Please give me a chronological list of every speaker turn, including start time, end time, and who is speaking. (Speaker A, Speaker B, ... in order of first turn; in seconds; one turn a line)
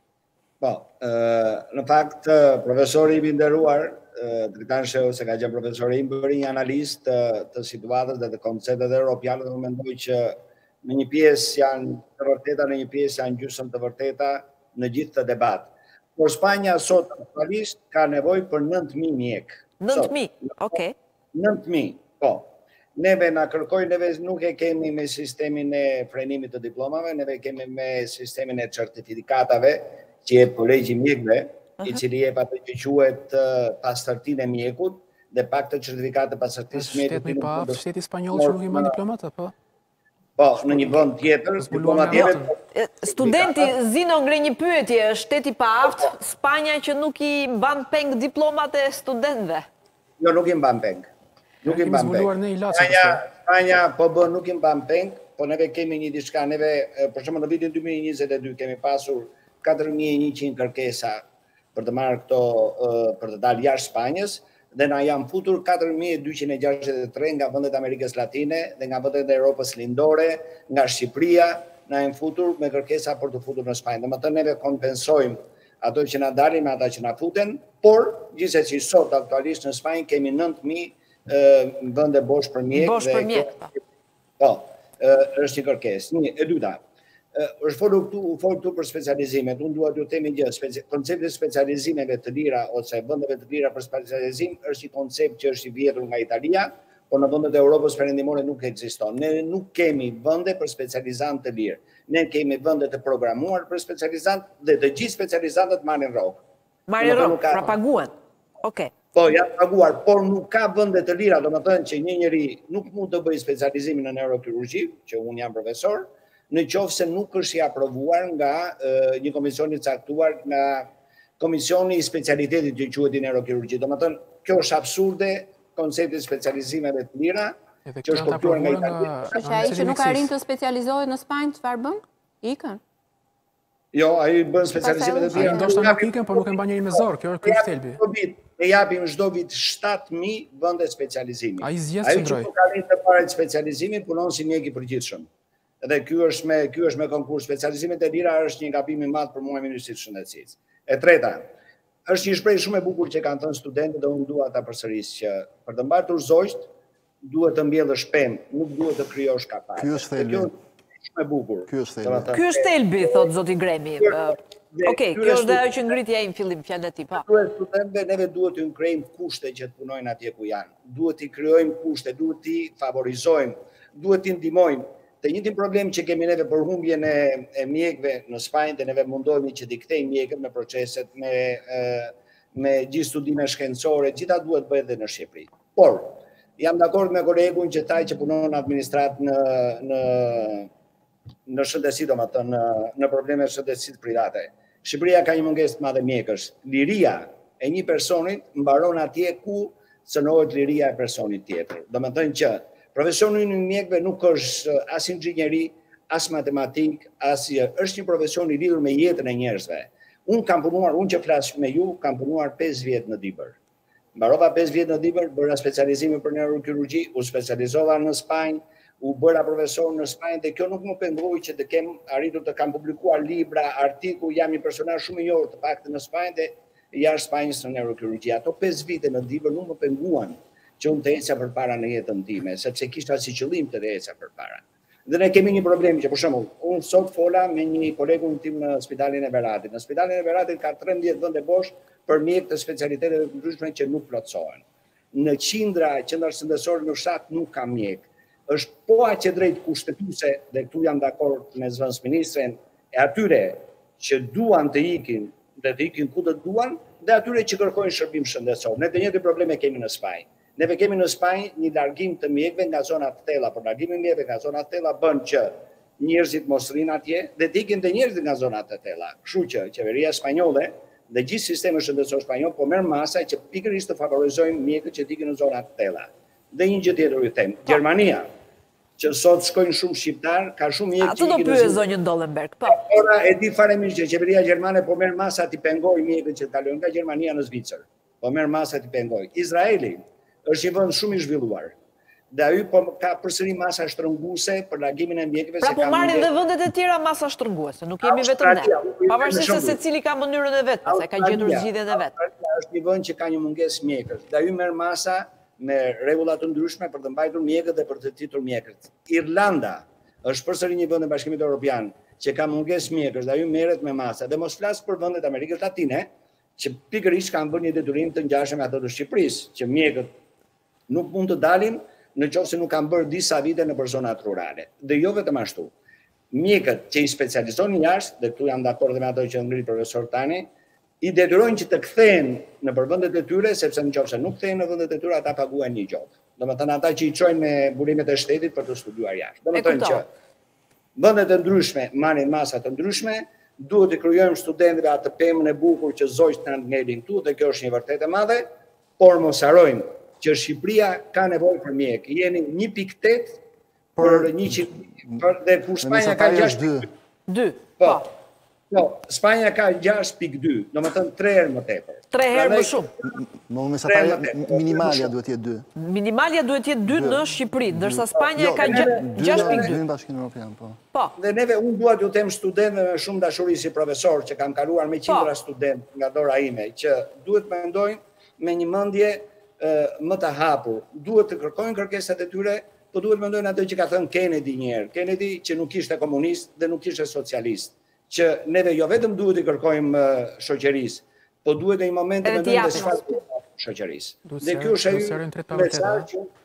Speaker A: 0.6-20.8
Speaker B: 19.8-20.9
Speaker A: 21.3-39.0
Speaker C: 36.7-39.5
Speaker A: 40.4-43.7
Speaker C: 41.6-42.5
Speaker B: 42.7-49.6
Speaker A: 45.8-46.1
Speaker A: 50.2-51.1
Speaker A: 51.6-61.2
Speaker C: 51.6-53.2
Speaker A: 61.7-83.6
Speaker B: 82.7-83.7
Speaker A: 84.4-86.8
Speaker A: 87.3-106.4
Speaker B: 106.9-108.9
Speaker A: 107.0-107.8
Speaker A: 109.1-120.9
Speaker A: 121.4-129.9
Speaker C: 127.8-130.3
Speaker D: 129.3-132.8
Speaker A: 133.9-145.3
Speaker D: 134.8-135.8
Speaker C: 135.3-138.0
Speaker C: 141.6-142.5
Speaker A: 145.8-151.4
Speaker A: 152.1-156.7
Speaker A: 157.2-160.5
Speaker E: 159.8-160.5
Speaker A: 161.0-163.3
Speaker E: 161.7-162.3
Speaker B: 162.3-167.2
Speaker A: 164.0-165.7
Speaker A: 167.1-190.7
Speaker A: 191.5-213.6
Speaker A: 214.1-278.3
Speaker A: 279.0-281.8
Speaker B: 280.9-282.8
Speaker A: 282.7-291.7
Speaker A: 292.3-296.3
Speaker B: 295.6-302.1
Speaker A: 298.0-299.8
Speaker A: 300.8-320.1
Speaker A: 320.9-325.7
Speaker A: 326.3-330.5
Speaker A: 331.0-340.1
Speaker B: 339.5-340.0
Speaker A: 340.9-348.5
Speaker A: 349.0-353.4
Speaker E: 353.9-354.4
Speaker A: 354.0-356.9
Speaker E: 355.8-356.9
Speaker B: 357.3-358.1
Speaker A: 357.8-358.1
Speaker A: 358.7-363.2
Speaker B: 362.1-362.9
Speaker E: 363.2-365.6
Speaker A: 363.9-365.1
Speaker B: 365.7-369.8
Speaker E: 366.9-367.2
Speaker E: 367.7-370.8
Speaker A: 368.6-369.7
Speaker A: 371.2-396.3
Speaker B: 392.2-393.2
Speaker C: 394.2-396.1